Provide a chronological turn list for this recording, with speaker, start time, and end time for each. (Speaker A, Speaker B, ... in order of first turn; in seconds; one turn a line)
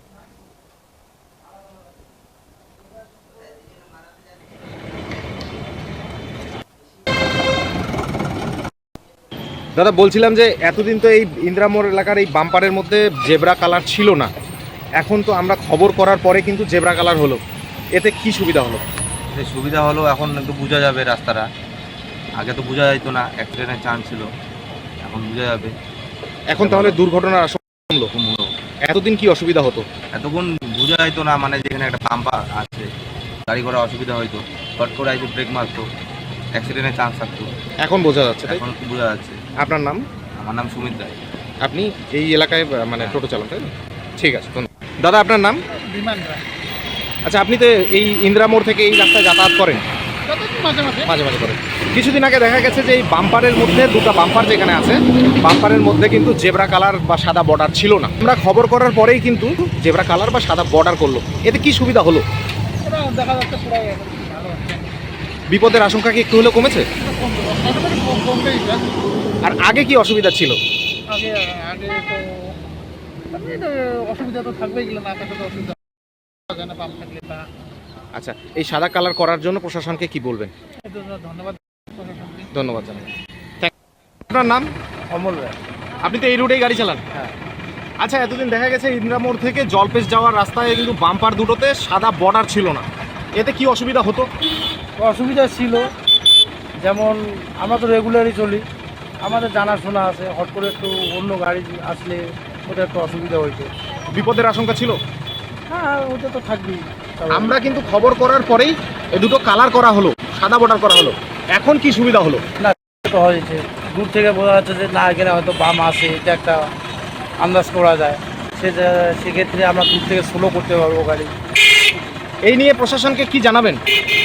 Speaker A: 9.8-14.3
Speaker A: 15.0-17.4
Speaker A: 17.9-18.8
Speaker B: 19.4-21.4
Speaker B: 22.4-24.3
Speaker B: 25.0-25.7
Speaker A: 26.5-28.1
Speaker B: 26.6-27.0
Speaker B: 28.1-28.5
Speaker A: 28.9-29.9
Speaker B: 30.1-32.9
Speaker B: 33.5-35.9
Speaker B: 36.5-37.5
Speaker A: 37.8-38.6
Speaker B: 38.5-39.4
Speaker A: 39.6-40.0
Speaker B: 40.4-41.2
Speaker A: 41.6-45.6
Speaker C: 45.7-46.4
Speaker A: 47.2-49.8
Speaker C: 50.3-51.1
Speaker A: 51.1-62.2
Speaker C: 62.8-64.9
Speaker A: 65.5-66.8
Speaker C: 67.0-68.9
Speaker A: 69.4-70.6
Speaker C: 71.1-72.5
Speaker C: 73.3-75.8
Speaker C: 76.5-77.5
Speaker A: 78.2-80.5
Speaker C: 80.8-82.5
Speaker A: 82.5-83.1
Speaker A: 84.3-84.7
Speaker D: 85.1-85.5
Speaker A: 86.0-87.0
Speaker A: 88.0-92.8
Speaker A: 93.4-94.3
Speaker D: 95.0-95.9
Speaker D: 96.8-98.7
Speaker D: 99.2-103.7
Speaker A: 104.1-105.0
Speaker D: 105.7-107.5
Speaker A: 107.3-112.4
Speaker D: 112.6-116.7
Speaker D: 117.4-121.3
Speaker A: 122.4-123.8